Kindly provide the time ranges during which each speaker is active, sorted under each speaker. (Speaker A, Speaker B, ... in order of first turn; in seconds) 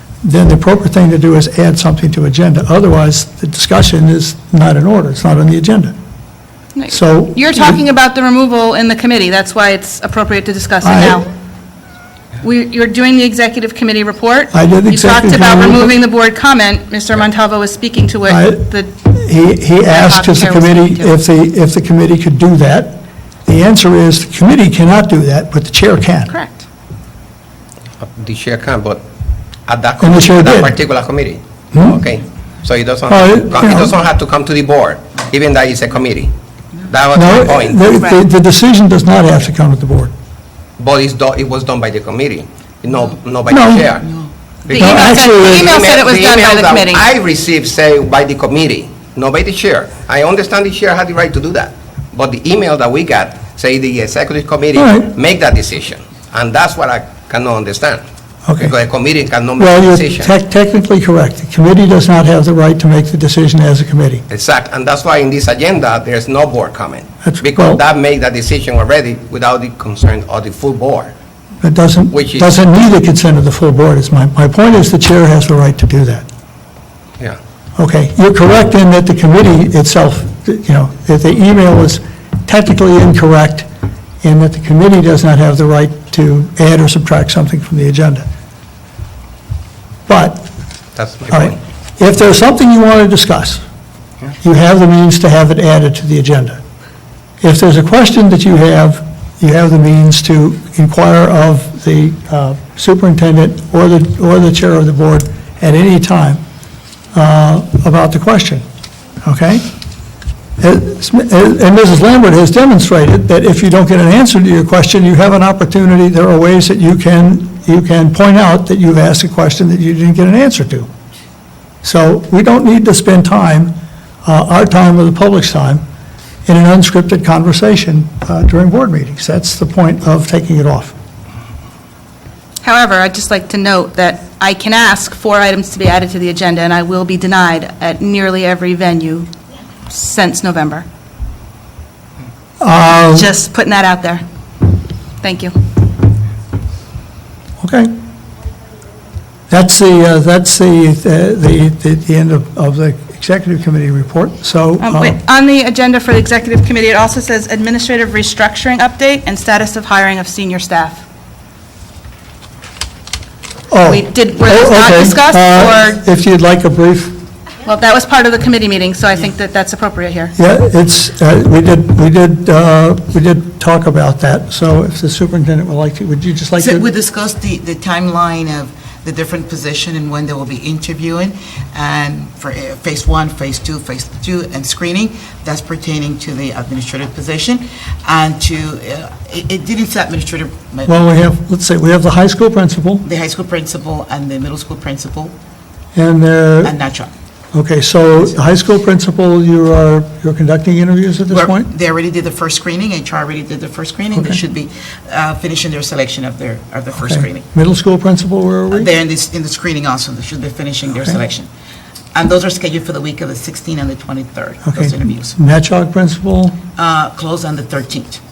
Speaker A: 0.2-6.0, 6.9-7.8, 10.8-11.2, 14.5-15.9, 18.3-26.3, 30.0-30.8, 33.1-34.0, 37.1-40.1, 43.5-43.9, 44.8-45.8, 54.8-55.1, 58.5-58.7, 59.6-64.2, 67.2-67.8, 71.6-76.3, 77.8-83.7, 84.2-88.3, 90.1-90.5, 91.3-93.6, 94.4-96.6, 97.4-106.4, 107.1-108.7, 109.2-109.7, 110.6-120.9, 121.8-123.7, 124.2-125.8, 126.5-130.9, 142.6-143.3, 147.6-147.9, 149.5-155.2, 163.7-167.2, 170.3-176.8, 190.9-193.1, 196.0-196.8, 197.5-201.7, 207.0-208.9, 214.7-216.6
Speaker B: 6.8-11.3, 12.4-18.9, 19.8-21.2, 26.3-26.6, 37.8-38.2, 44.7-47.1, 132.6-139.3, 139.9-140.9, 142.9-144.2, 145.2-145.6, 154.8-161.0, 163.8-166.0, 167.6-170.3
Speaker C: 28.0-29.0, 29.7-36.3, 36.9-37.9, 40.8-44.1, 44.7-58.0, 58.6-60.3, 64.3-71.1, 72.1-72.5, 91.0-91.6
Speaker D: 44.0-44.7, 176.6-190.9, 193.0-195.3, 196.6-197.1, 201.3-207.4, 208.7-211.5, 212.1-215.4, 216.8-218.2